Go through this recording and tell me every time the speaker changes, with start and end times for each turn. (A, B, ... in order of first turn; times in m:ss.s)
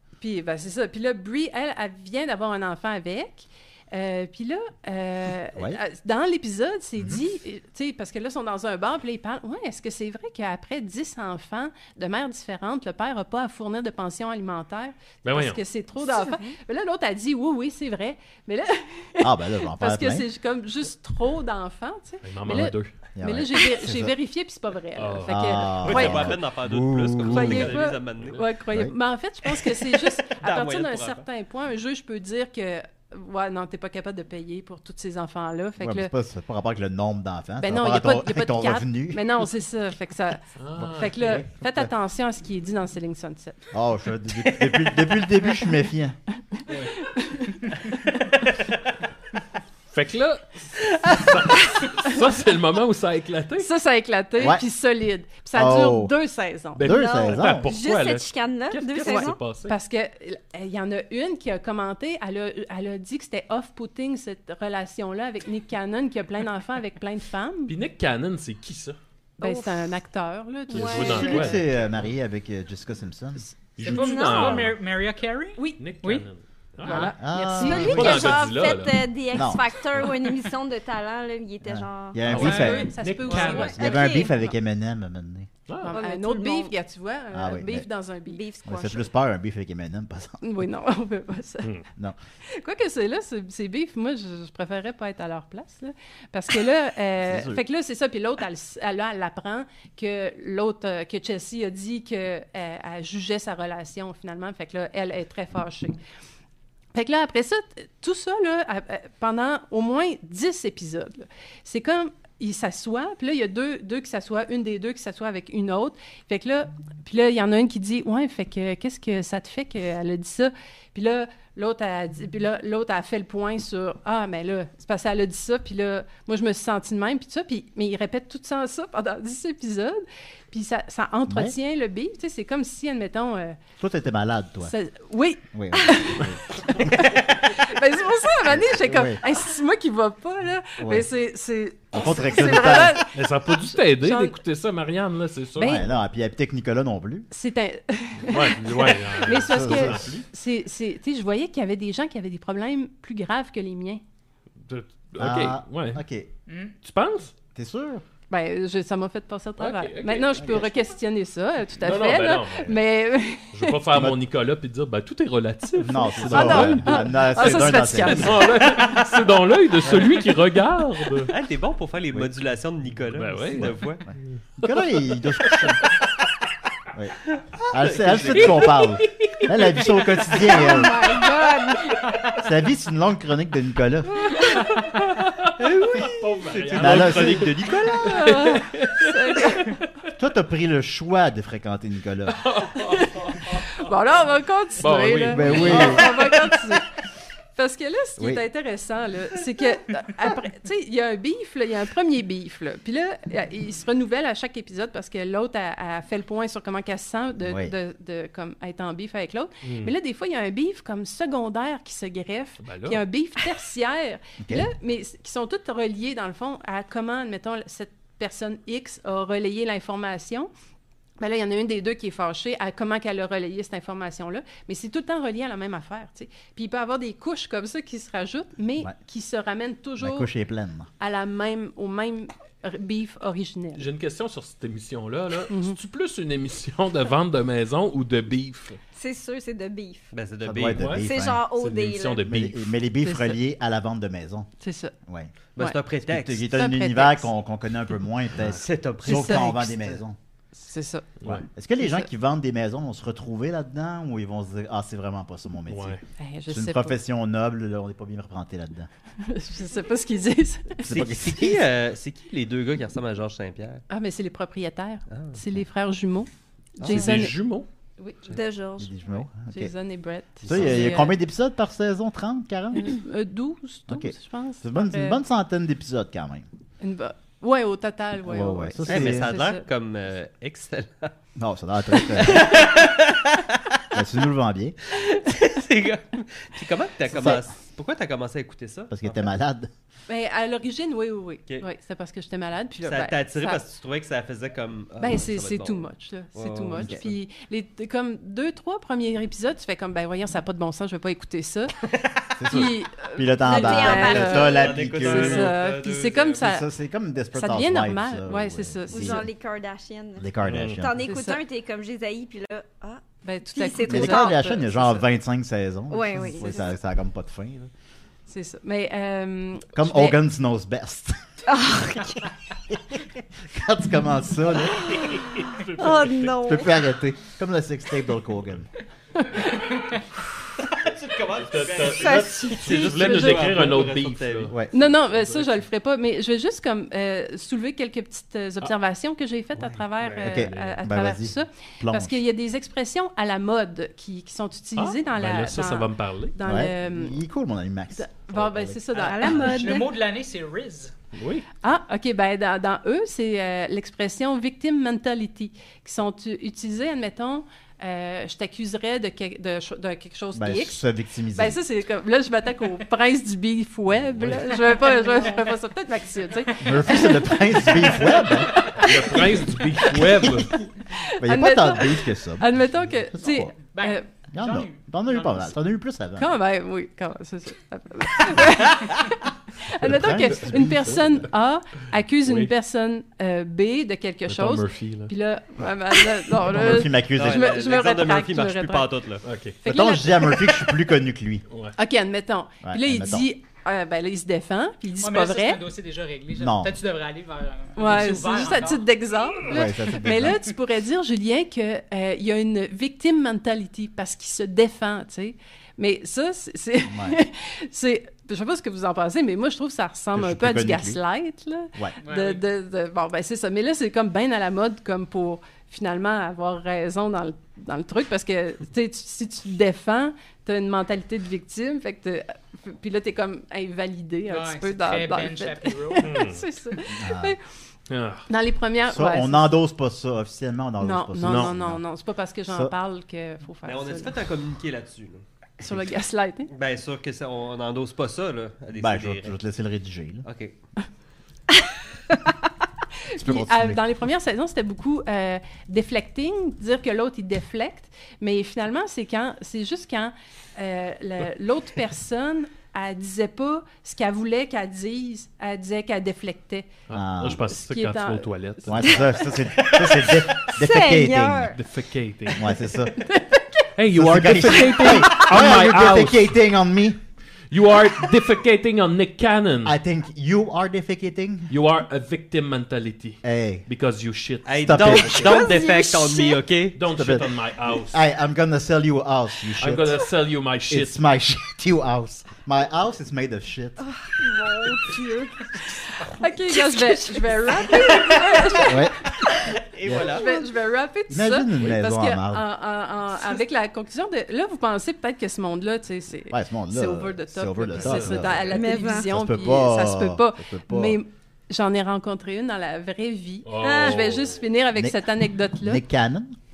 0:00.2-0:26.3 A
0:15.2-0:15.6 B
0:16.1-0:16.5 C
0:19.2-0:20.3 D
0:22.2-0:22.9 B
0:23.2-0:24.1 D
0:25.0-0:26.4 B
0:25.3-0:27.8 D
0:25.8-0:28.4 E
0:27.2-0:28.4 B
0:27.3-0:36.1 A
0:30.2-0:31.2 E
0:35.8-0:39.5 D
0:37.6-0:40.4 A
0:40.6-0:41.4 B
0:40.8-0:41.9 D
0:41.0-0:43.7 A
0:43.7-0:46.2 D
0:46.6-0:48.1 A
0:46.7-0:47.0 B
0:49.9-0:53.7 B
0:51.5-0:52.2 A
0:53.6-0:56.9 A
0:54.4-0:54.6 D
0:55.6-0:56.1 D
0:56.8-0:59.8 B
0:56.8-0:57.7 D
0:56.9-0:59.4 C
0:59.0-1:07.8 A
1:07.7-1:09.0 B
1:09.4-1:09.9 C
1:09.4-1:11.6 A
1:10.7-1:11.6 C
1:10.7-1:12.0 B
1:10.8-1:13.4 D
1:13.8-1:14.8 B
1:13.8-1:16.3 F
1:13.9-1:14.7 C
1:15.8-1:17.1 B
1:16.8-1:18.0 A
1:16.8-1:17.2 F
1:17.1-1:18.4 D
1:17.5-1:22.3 C
1:17.6-1:19.1 B
1:19.3-1:19.6 D
1:21.6-1:23.1 D
1:22.2-1:24.0 B
1:22.4-1:24.3 A
1:22.4-1:22.9 F
1:23.5-1:24.5 C
1:23.7-1:25.5 D
1:25.7-1:26.0 B
1:25.8-1:28.4 A
1:25.9-1:26.7 C
1:27.3-1:27.9 D
1:28.3-1:29.1 C
1:28.7-1:30.4 D
1:30.4-1:31.8 A
1:32.5-1:46.0 A
1:37.2-1:37.6 D
1:46.9-2:13.6 A
2:11.3-2:11.6 D
2:13.8-2:14.7 D
2:14.6-2:24.4 A
2:15.5-2:17.1 D
2:18.5-2:19.2 D
2:20.8-2:21.1 D
2:21.9-2:23.1 D
2:23.2-2:25.8 B
2:25.6-2:25.9 A
2:25.6-2:27.3 D
2:27.3-2:34.0 A
2:28.2-2:30.2 B
2:29.3-2:30.3 D
2:34.6-2:36.0 B
2:35.2-2:36.3 D
2:36.5-2:36.8 F
2:36.8-2:37.3 B
2:37.6-2:38.0 D
2:38.3-2:43.8 A
2:39.6-2:40.6 B
2:40.4-2:40.8 D
2:41.8-2:42.8 B
2:43.5-2:51.3 B
2:43.9-2:44.2 D
2:45.8-2:48.4 D
2:46.2-2:48.6 A
2:51.3-2:54.0 E
2:53.2-2:56.0 B
2:54.6-2:55.8 D
2:57.3-2:58.8 E
2:57.7-3:01.0 D
2:58.3-3:02.2 B
3:00.7-3:01.3 A
3:02.4-3:04.3 D
3:04.2-3:09.8 B
3:05.6-3:08.1 E
3:06.8-3:08.3 D
3:08.0-3:09.8 A
3:10.2-3:12.5 D
3:12.4-3:13.9 B
3:12.8-3:16.9 A
3:14.8-3:16.6 B
3:15.3-3:16.1 D
3:17.6-3:40.5 A
3:18.2-3:18.4 D
3:27.4-3:27.7 D
3:29.6-3:29.9 B
3:32.6-3:33.0 B
3:34.4-3:34.7 D
3:41.2-3:50.3 A
3:50.0-3:50.9 D
3:51.0-3:53.8 A
3:53.8-3:58.8 B
3:55.5-3:55.8 A
3:59.0-4:00.1 C
4:00.1-4:00.9 E
4:00.4-4:01.4 D
4:00.7-4:02.6 B
4:00.9-4:02.3 C
4:02.2-4:04.5 D
4:03.0-4:03.4 A
4:04.6-4:05.0 A
4:05.1-4:05.3 D
4:05.6-4:06.4 E
4:06.1-4:10.2 D
4:06.5-4:07.3 A
4:08.4-4:10.0 E
4:09.1-4:09.7 A
4:10.6-4:12.1 A
4:11.5-4:16.0 D
4:15.7-4:16.0 B
4:16.2-4:17.0 A
4:16.5-4:18.9 D
4:19.2-4:21.0 A
4:20.8-4:21.6 D
4:20.9-4:23.8 E
4:23.9-4:27.4 A
4:25.1-4:25.4 E
4:26.8-4:27.1 D
4:26.9-4:27.7 B
4:28.0-4:28.3 A
4:28.3-4:28.9 C
4:28.8-4:29.7 D
4:29.5-4:31.2 A
4:30.4-4:33.0 D
4:30.5-4:30.9 E
4:32.7-4:35.2 A
4:33.9-4:36.5 D
4:36.8-4:39.7 A
4:38.2-4:39.4 D
4:38.8-4:41.1 E
4:41.4-4:42.6 D
4:41.9-4:43.8 E
4:43.9-4:44.8 D
4:44.9-4:49.2 E
4:47.1-4:47.4 D
4:48.9-4:49.7 D
4:50.1-4:53.6 A
4:52.8-4:57.1 E
4:55.0-5:01.7 A
5:01.9-5:02.2 E
5:02.4-5:05.5 D
5:02.5-5:06.7 A
5:03.4-5:04.6 C
5:04.3-5:06.5 E
5:06.4-5:09.3 D
5:07.4-5:09.2 A
5:08.9-5:14.4 C
5:10.2-5:11.0 D
5:10.4-5:10.8 B
5:11.0-5:11.4 A
5:13.2-5:15.0 A
5:13.8-5:17.7 D
5:15.9-5:16.6 C
5:16.4-5:16.7 A
5:18.3-5:20.2 A
5:19.8-5:21.2 D
5:21.5-5:22.2 C
5:22.7-5:25.0 D
5:24.8-5:26.5 B
5:25.8-5:26.7 C
5:26.4-5:28.7 D
5:30.6-5:34.6 E
5:31.4-5:34.5 B
5:31.9-5:32.7 C
5:32.7-5:33.5 A
5:34.7-5:47.2 A
5:40.0-5:40.8 B
5:40.2-5:42.2 D
5:44.8-5:46.4 B
5:46.4-5:49.0 D
5:48.0-5:49.5 A
5:49.0-5:49.9 C
5:49.2-5:49.7 B
5:49.3-5:50.9 F
5:51.1-5:51.5 B
5:51.6-6:14.1 A
6:00.4-6:01.6 D
6:04.7-6:05.3 F
6:06.6-6:08.8 D
6:08.7-6:10.6 B
6:11.2-6:13.5 D
6:13.7-6:15.4 F
6:14.3-6:16.4 D
6:16.2-6:28.9 A
6:19.8-6:21.3 D
6:19.8-6:21.0 B
6:22.2-6:22.5 B
6:24.3-6:25.1 B
6:26.4-6:27.6 D
6:27.1-6:29.3 E
6:29.2-6:29.6 B
6:29.6-6:30.7 A
6:29.6-6:31.4 D
6:31.5-6:31.8 B
6:31.8-6:35.6 A
6:32.6-6:33.3 D
6:35.0-6:38.8 F
6:36.3-6:36.7 D
6:37.8-7:07.4 A
6:39.4-6:40.5 D
6:46.9-6:47.2 D
6:50.1-6:51.0 D
6:52.0-6:52.4 F
7:04.3-7:06.1 F
7:06.0-7:06.4 B
7:06.9-7:07.4 D
7:07.9-7:08.3 B
7:08.3-7:09.6 A
7:08.9-7:11.8 D
7:10.8-7:14.2 A
7:11.2-7:11.5 B
7:12.5-7:12.7 D
7:13.6-7:15.2 E
7:15.6-7:16.5 A
7:16.5-7:19.4 E
7:18.8-7:20.2 D
7:20.2-7:20.5 E
7:23.1-7:36.7 A
7:23.2-7:23.8 D
7:36.9-7:39.1 B
7:36.9-7:37.5 D
7:37.5-7:38.9 A
7:38.7-7:41.6 D
7:39.6-7:40.5 E
7:40.6-7:41.6 C
7:41.5-7:42.5 B
7:42.4-7:43.0 D
7:43.0-7:43.6 A
7:43.8-7:46.3 B
7:43.9-7:47.0 D
7:47.5-7:49.8 B
7:49.6-7:51.5 D
7:51.5-7:55.4 B
7:53.2-7:53.7 D
7:54.4-7:56.8 E
7:54.6-7:55.5 D
7:55.2-7:56.4 C
7:56.7-7:58.0 B
7:56.9-7:57.3 D
7:57.9-8:00.0 D
7:59.6-8:01.0 B
8:00.7-8:03.8 D
8:03.8-8:05.8 C
8:04.3-8:04.9 A
8:06.0-8:25.8 A
8:06.5-8:07.9 C
8:08.0-8:08.2 E
8:08.6-8:09.0 D
8:09.7-8:10.3 E
8:09.8-8:10.2 D
8:10.1-8:10.4 C
8:11.1-8:12.4 D
8:16.3-8:21.0 D
8:17.8-8:18.3 B
8:18.5-8:19.1 C
8:23.4-8:24.4 B
8:23.6-8:24.1 C
8:24.8-8:26.4 D